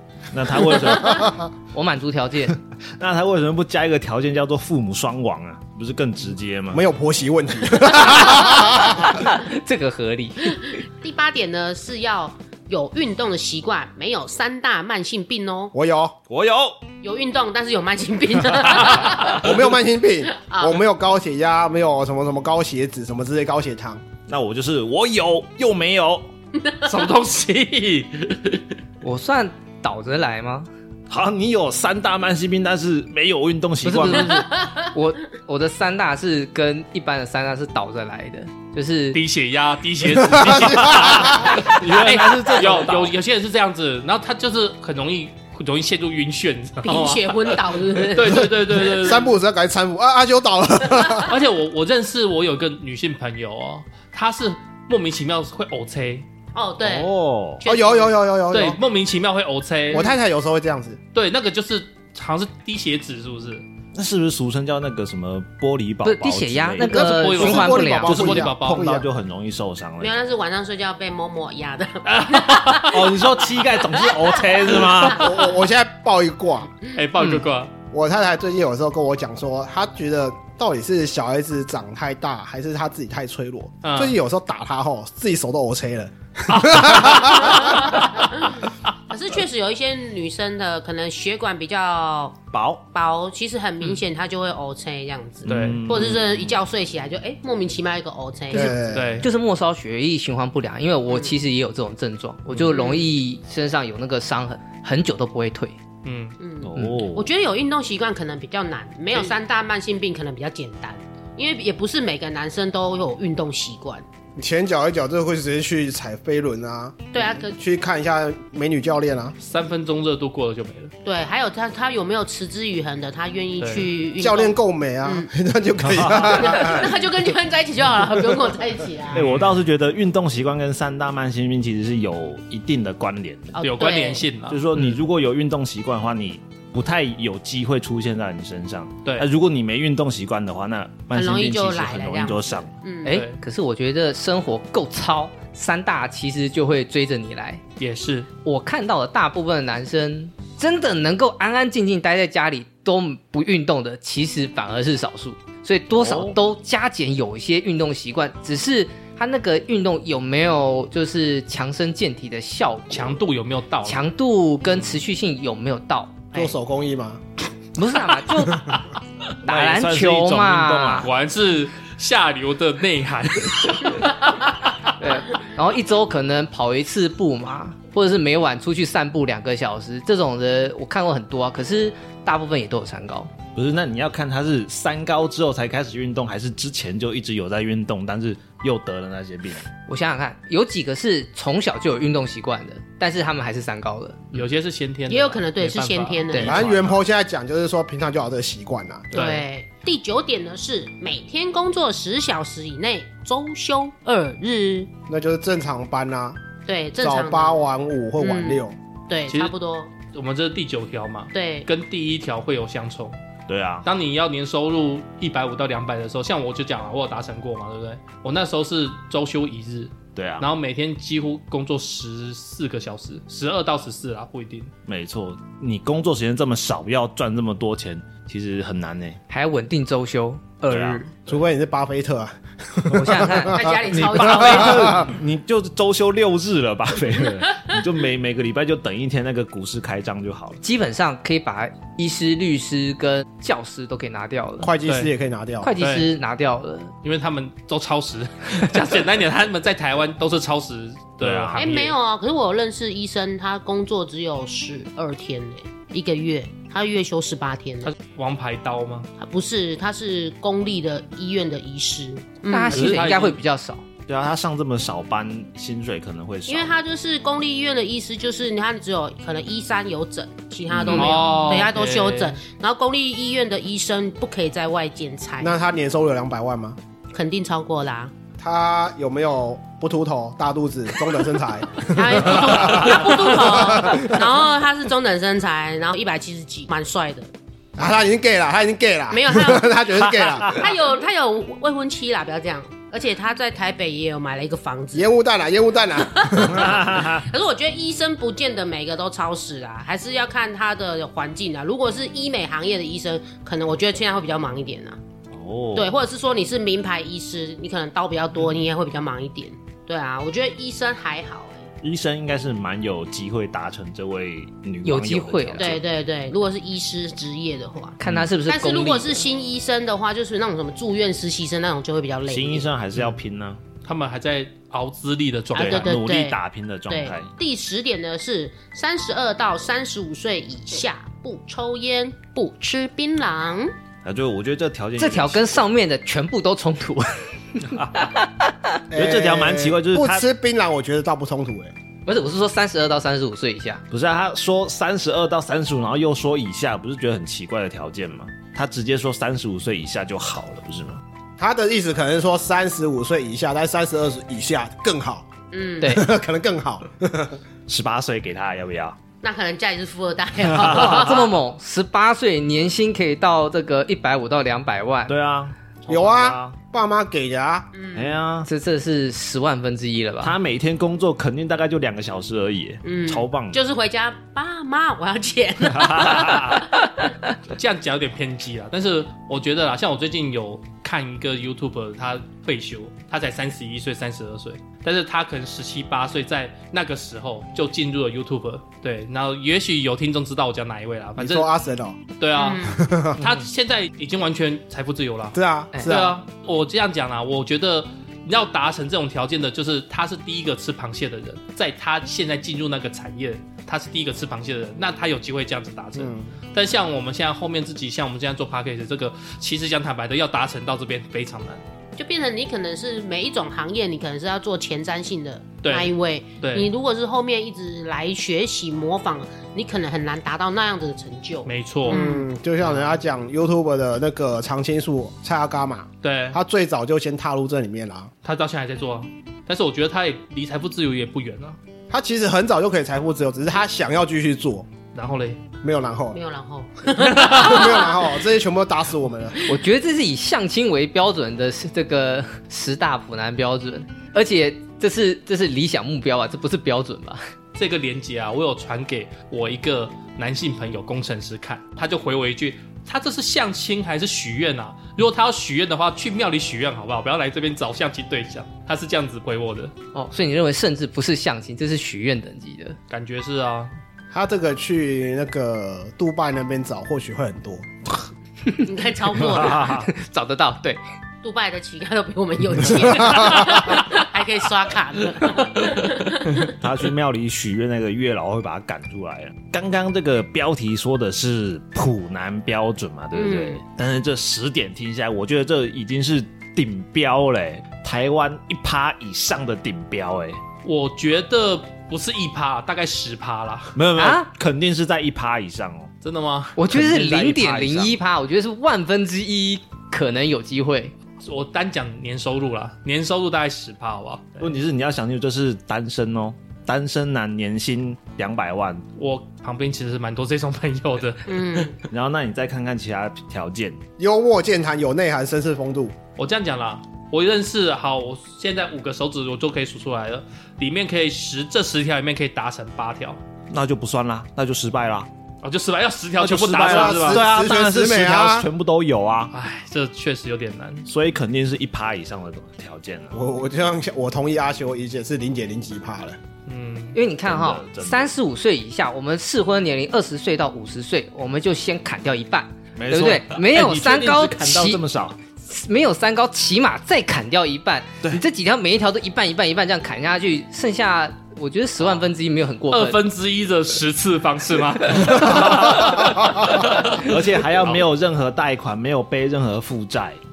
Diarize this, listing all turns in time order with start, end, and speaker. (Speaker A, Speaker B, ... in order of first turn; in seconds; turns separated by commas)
Speaker A: 0.3-1.3, Speaker B: 0.7-1.5, Speaker C: 1.7-2.6, Speaker A: 3.0-6.8, Speaker B: 6.7-9.2, Speaker C: 8.5-10.7, Speaker D: 11.0-15.7, Speaker B: 15.7-16.2, Speaker A: 16.3-16.8, Speaker D: 17.0-19.6, Speaker B: 18.9-24.1, Speaker D: 20.3-20.8, Speaker A: 24.3-26.3, Speaker D: 26.6-26.9, Speaker E: 26.9-28.6, Speaker C: 29.0-30.7, Speaker A: 31.1-34.5, Speaker C: 33.8-39.2, Speaker D: 34.3-34.9, Speaker E: 39.1-49.4, Speaker B: 40.3-41.6, Speaker A: 41.2-43.1, Speaker D: 46.8-48.5, Speaker B: 48.9-51.3, Speaker E: 51.3-56.3, Speaker D: 56.5-58.1, Speaker A: 56.8-57.6, Speaker B: 57.6-58.8, Speaker E: 58.5-60.1, Speaker D: 59.9-60.2, Speaker B: 59.9-61.0, Speaker E: 61.1-63.6, Speaker A: 64.0-67.5, Speaker C: 66.0-68.4, Speaker E: 66.8-68.9, Speaker B: 67.1-69.1, Speaker A: 68.0-70.2, Speaker D: 70.0-73.3, Speaker E: 72.0-73.0, Speaker A: 72.8-75.3, Speaker D: 73.9-75.4, Speaker B: 75.0-76.7, Speaker E: 76.9-77.7, Speaker B: 77.9-88.0, Speaker E: 83.8-84.2, Speaker E: 86.5-88.0, Speaker D: 87.5-92.4, Speaker A: 92.5-92.8, Speaker D: 92.9-98.9, Speaker A: 95.5-96.6, Speaker E: 95.5-95.8, Speaker B: 98.5-99.2, Speaker C: 98.5-105.8, Speaker E: 98.8-99.3, Speaker D: 101.1-101.3, Speaker D: 102.7-103.1, Speaker E: 106.0-106.4, Speaker D: 106.4-114.0, Speaker A: 106.6-107.3, Speaker B: 114.4-119.3, Speaker D: 117.1-117.5, Speaker E: 119.4-120.9, Speaker D: 121.0-125.3, Speaker E: 123.6-123.9, Speaker B: 124.2-126.9, Speaker A: 125.8-126.6, Speaker D: 126.2-129.3, Speaker A: 129.1-133.6, Speaker E: 129.1-129.6, Speaker D: 133.6-134.3, Speaker E: 133.6-135.0, Speaker A: 134.5-142.7, Speaker D: 141.1-143.2, Speaker E: 143.0-143.4, Speaker C: 143.0-147.6, Speaker E: 147.8-148.3, Speaker C: 148.4-163.2, Speaker A: 155.9-156.4, Speaker E: 162.9-164.0, Speaker C: 163.8-166.4, Speaker B: 166.3-167.2, Speaker C: 167.8-168.8, Speaker C: 169.4-171.1, Speaker A: 169.4-171.1, Speaker E: 171.0-174.4, Speaker C: 175.0-183.3, Speaker A: 183.6-189.7, Speaker C: 189.9-194.4, Speaker E: 194.3-197.0, Speaker D: 195.1-196.7, Speaker B: 196.4-199.1, Speaker D: 199.1-204.9, Speaker E: 199.1-199.5, Speaker B: 205.1-206.4, Speaker D: 206.7-207.6, Speaker B: 207.0-208.8, Speaker D: 208.2-209.9, Speaker E: 209.3-213.2, Speaker D: 211.3-211.7, Speaker A: 213.5-213.9, Speaker E: 213.8-224.7, Speaker A: 220.2-220.5, Speaker A: 224.9-229.2, Speaker C: 229.3-231.1, Speaker A: 230.7-231.2, Speaker B: 231.3-235.1, Speaker C: 232.9-233.8, Speaker D: 233.4-235.1, Speaker A: 233.9-240.6, Speaker C: 240.6-244.7, Speaker B: 244.6-245.7, Speaker E: 244.9-245.1, Speaker C: 245.6-246.9, Speaker E: 245.8-246.1, Speaker E: 247.0-252.0, Speaker A: 251.2-251.7, Speaker D: 251.6-257.9, Speaker E: 257.8-259.1, Speaker D: 259.2-263.1, Speaker C: 262.5-263.8, Speaker E: 262.7-263.4, Speaker A: 264.1-266.8, Speaker D: 266.5-275.6, Speaker A: 270.7-271.2, Speaker E: 270.8-272.4, Speaker B: 275.4-276.8, Speaker D: 277.1-278.1, Speaker B: 278.4-284.3, Speaker D: 281.8-287.3, Speaker B: 287.8-290.7, Speaker D: 289.1-289.9, Speaker D: 290.4-295.1, Speaker B: 294.9-296.8, Speaker D: 296.0-305.0, Speaker A: 296.5-297.3, Speaker A: 305.3-305.9, Speaker D: 305.8-311.7, Speaker A: 311.8-315.8, Speaker C: 314.8-315.8, Speaker D: 315.6-322.7, Speaker C: 318.0-319.3, Speaker A: 318.0-318.3, Speaker A: 322.3-323.6, Speaker E: 323.8-325.9, Speaker A: 325.6-327.3, Speaker D: 325.6-333.7, Speaker A: 334.0-335.6, Speaker C: 335.0-338.5, Speaker A: 337.7-338.1, Speaker B: 338.9-341.7, Speaker A: 338.9-340.2, Speaker C: 342.1-343.8, Speaker A: 343.9-351.0, Speaker B: 351.4-355.3, Speaker D: 355.5-356.0, Speaker C: 355.8-356.1, Speaker B: 355.8-357.4, Speaker A: 357.7-359.0, Speaker D: 359.2-361.3, Speaker A: 360.5-361.1, Speaker C: 360.6-365.1, Speaker A: 365.1-366.6, Speaker B: 365.9-367.7, Speaker D: 367.7-368.2, Speaker A: 367.9-368.5, Speaker C: 368.4-370.4, Speaker A: 370.2-373.6, Speaker D: 372.8-377.1, Speaker A: 375.6-376.7, Speaker E: 377.5-391.5, Speaker B: 391.2-392.0, Speaker E: 392.2-411.6, Speaker D: 392.4-392.8, Speaker B: 392.8-393.2, Speaker B: 395.3-396.2, Speaker B: 406.0-406.3, Speaker D: 412.0-422.3, Speaker E: 415.6-416.7, Speaker E: 421.4-422.0, Speaker B: 421.9-428.1, Speaker E: 422.6-422.9, Speaker E: 426.0-426.4, Speaker E: 428.2-431.6, Speaker B: 431.9-434.7, Speaker E: 434.9-435.4, Speaker B: 435.6-436.2, Speaker D: 436.1-438.0, Speaker E: 437.0-437.6, Speaker B: 437.2-439.4, Speaker C: 439.5-447.2, Speaker E: 447.6-459.7, Speaker C: 459.9-462.8, Speaker E: 462.9-463.7, Speaker B: 464.1-467.7, Speaker D: 468.6-469.8, Speaker A: 469.2-469.9, Speaker C: 469.8-470.8, Speaker D: 471.2-476.6, Speaker B: 473.0-473.4, Speaker A: 476.4-490.4, Speaker D: 483.1-483.6, Speaker E: 490.6-493.7, Speaker A: 493.7-495.9, Speaker C: 494.0-494.3, Speaker E: 496.0-496.6, Speaker C: 496.6-500.9, Speaker A: 496.7-498.0, Speaker E: 501.2-504.5, Speaker A: 504.4-508.8, Speaker E: 509.0-511.8, Speaker D: 511.3-511.8, Speaker A: 511.9-513.8, Speaker B: 514.0-516.0, Speaker E: 516.2-523.2, Speaker A: 523.5-525.1, Speaker E: 525.4-527.2, Speaker A: 526.2-529.3, Speaker B: 526.6-528.5, Speaker E: 529.3-530.9, Speaker A: 530.9-533.2, Speaker B: 533.1-536.2, Speaker E: 536.5-537.0, Speaker C: 536.9-544.8, Speaker A: 537.2-538.1, Speaker A: 542.8-545.2, Speaker C: 545.4-553.0, Speaker E: 552.7-557.1, Speaker A: 555.0-560.2